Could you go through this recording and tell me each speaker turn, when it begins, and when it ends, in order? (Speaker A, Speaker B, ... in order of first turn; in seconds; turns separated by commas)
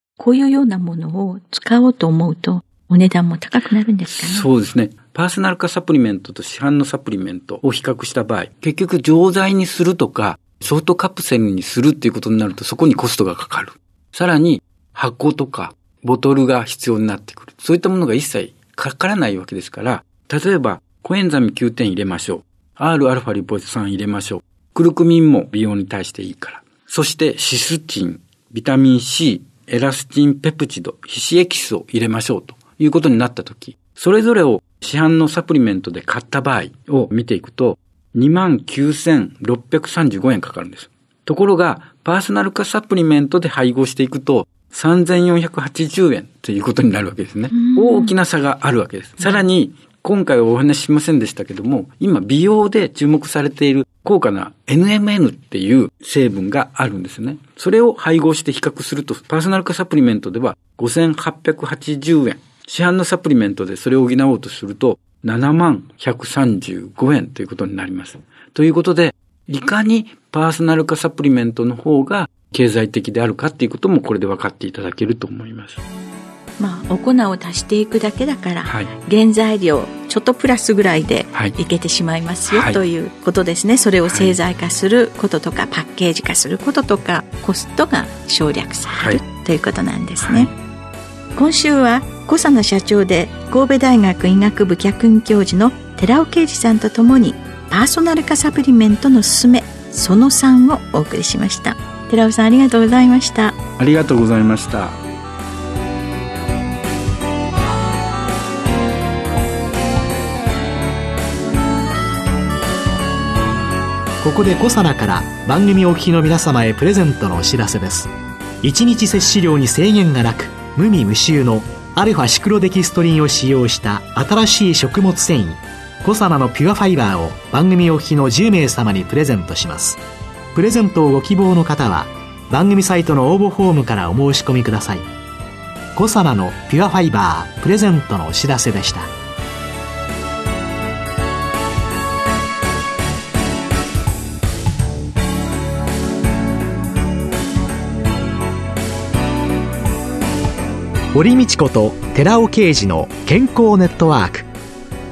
Speaker A: 0.2-4.5, Speaker B: 4.1-75.8, Speaker A: 47.5-48.1, Speaker A: 76.6-90.5, Speaker B: 82.5-82.8, Speaker B: 84.1-84.4, Speaker B: 88.9-89.2, Speaker B: 90.2-90.5, Speaker A: 91.3-103.6, Speaker B: 103.8-105.0, Speaker C: 114.2-118.1, Speaker C: 118.6-130.0, Speaker C: 130.5-135.1, Speaker C: 136.0-139.1, Speaker C: 151.1-154.5